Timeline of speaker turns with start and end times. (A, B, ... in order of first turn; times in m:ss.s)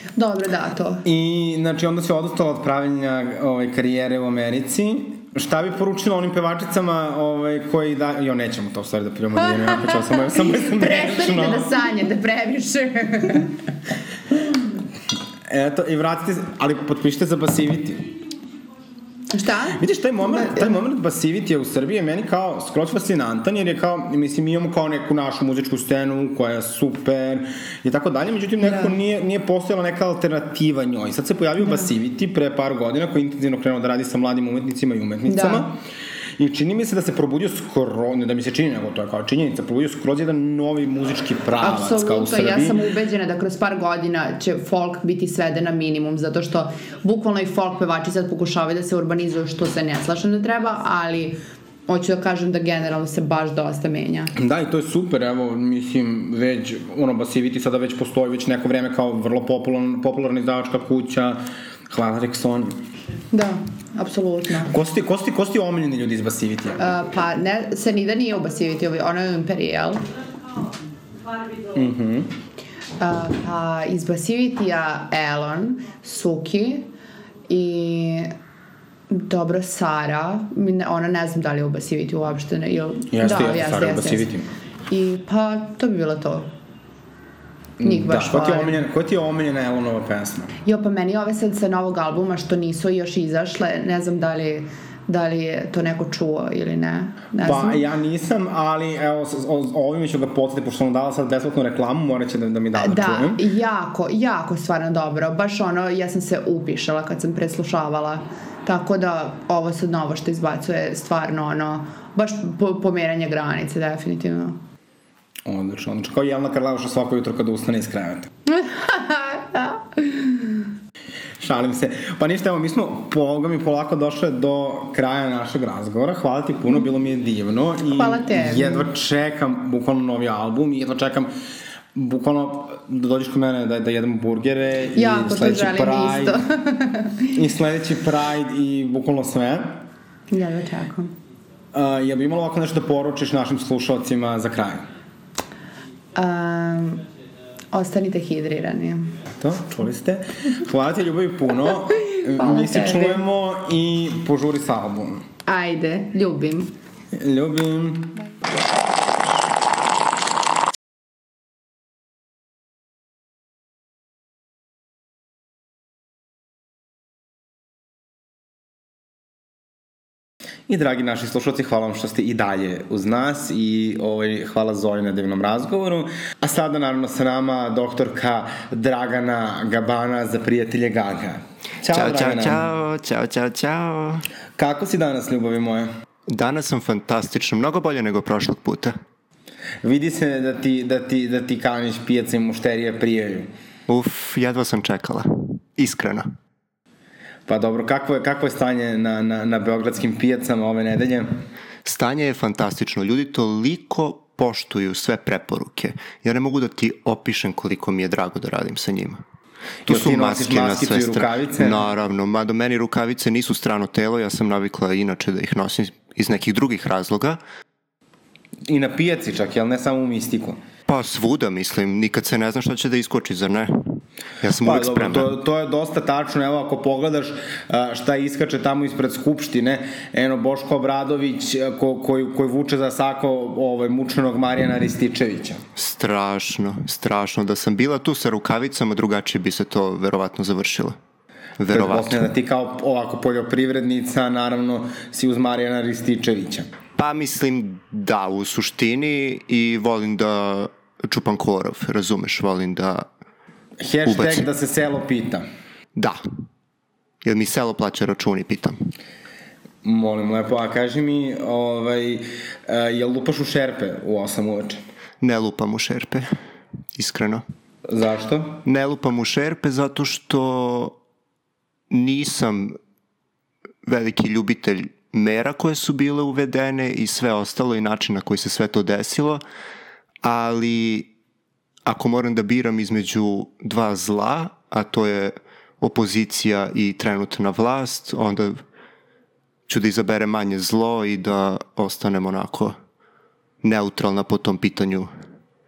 0:00.2-0:01.0 A
0:01.0-0:11.7 B
0:09.5-0:13.5 A
0:15.5-0:18.1 B
0:19.3-0:20.8 A
0:19.8-0:35.8 B
0:28.6-0:29.0 A
0:35.3-0:35.7 A
0:36.4-0:42.8 B
0:41.6-0:54.3 A
0:54.4-1:01.4 B
1:01.9-1:02.7 B
1:03.3-1:04.7 A
1:04.7-1:06.9 B
1:06.8-1:10.0 A
1:11.7-1:12.3 B
1:13.0-1:16.9 A
1:17.5-1:18.3 A
1:19.1-1:24.3 A
1:23.1-1:24.5 B
1:24.9-1:26.5 A
1:27.8-1:30.5 B
1:27.8-1:28.8 A
1:30.6-1:37.8 A
1:37.4-1:43.4 B
1:42.8-1:54.6 A
1:55.5-1:58.3 B
1:58.5-2:00.7 A
2:01.4-2:11.3 B
2:07.9-2:08.9 A
2:11.9-2:16.4 B
2:15.0-2:17.4 A
2:17.3-2:19.8 B
2:20.3-2:21.1 A
2:21.7-2:24.8 B
2:26.2-2:27.0 A
2:27.7-2:29.2 A
2:29.4-2:35.2 B
2:32.0-2:33.2 A
2:35.5-2:36.7 A
2:37.1-2:38.2 B
2:50.7-3:02.6 B
3:01.9-3:04.3 C
3:04.6-3:05.9 B
3:06.3-3:08.9 C
3:09.8-3:13.5 B
3:13.9-3:16.3 C
3:17.5-3:21.3 B
3:21.8-3:29.2 C
3:29.9-3:31.9 B
3:29.9-3:37.4 C
3:38.7-3:40.6 B
3:40.9-3:43.8 C
3:44.4-3:45.3 C
3:44.5-3:55.6 B
3:55.8-4:01.0 C
4:01.6-4:02.3 C
4:01.7-4:06.7 B
4:07.0-4:13.1 C
4:13.8-4:15.4 B
4:14.1-4:14.5 C
4:17.2-4:18.8 C
4:19.8-4:24.8 B
4:25.2-4:26.3 C
4:27.0-4:27.4 C
4:27.9-4:28.6 B
4:28.6-4:31.0 C
4:31.9-4:32.8 C
4:33.9-4:39.4 C
4:40.2-4:41.1 C
4:41.8-4:48.6 C
4:49.7-4:52.8 C
4:53.6-4:55.1 C